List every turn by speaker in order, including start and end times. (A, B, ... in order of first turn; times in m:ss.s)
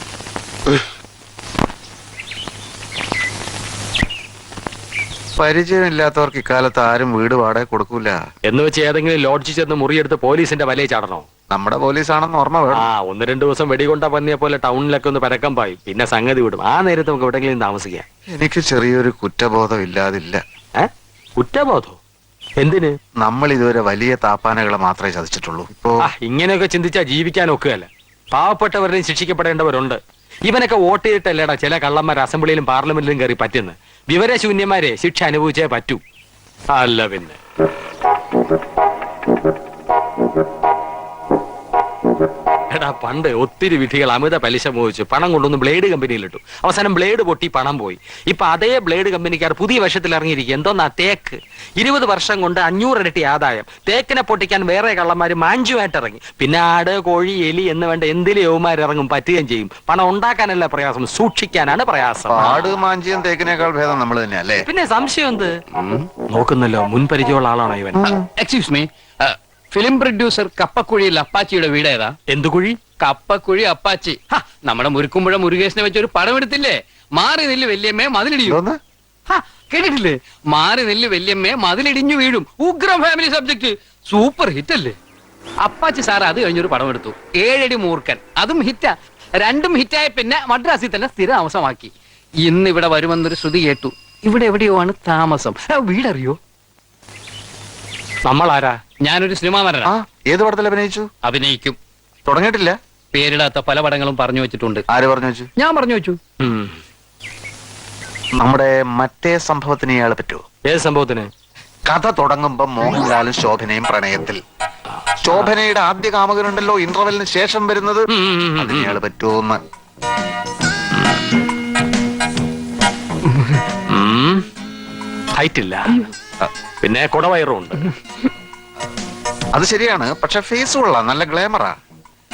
0:05.4-0:08.2 A
0:08.5-0:11.2 B
0:11.5-0:12.9 A
0:12.8-0:18.1 B
0:18.4-0:20.4 A
0:21.4-0:22.0 B
0:22.6-0:23.0 B
0:23.2-0:26.0 A
0:26.0-0:36.0 B
0:36.8-0:37.4 B
0:42.7-1:02.6 B
1:02.3-1:04.7 A
1:04.6-1:08.0 B
1:08.0-1:08.2 A
1:08.4-1:12.1 C
1:12.3-1:12.8 B
1:13.0-1:18.6 C
1:18.4-1:18.8 A
1:19.3-1:25.0 C
1:25.6-1:31.9 C
1:32.5-1:36.4 C
1:38.2-1:38.8 B
1:39.0-1:39.9 C
1:39.9-1:41.1 A
1:41.2-1:41.8 C
1:42.3-1:42.8 A
1:43.1-1:44.8 C
1:44.9-1:45.5 A
1:45.6-1:46.2 C
1:46.4-1:46.8 B
1:48.4-1:50.4 A
1:50.7-1:51.3 B
1:51.9-1:54.4 A
1:55.2-1:59.6 A
1:55.2-1:55.5 B
1:58.1-1:59.0 B
2:03.9-2:04.4 B
2:05.4-2:06.0 B
2:06.8-2:07.9 B
2:09.5-2:11.8 A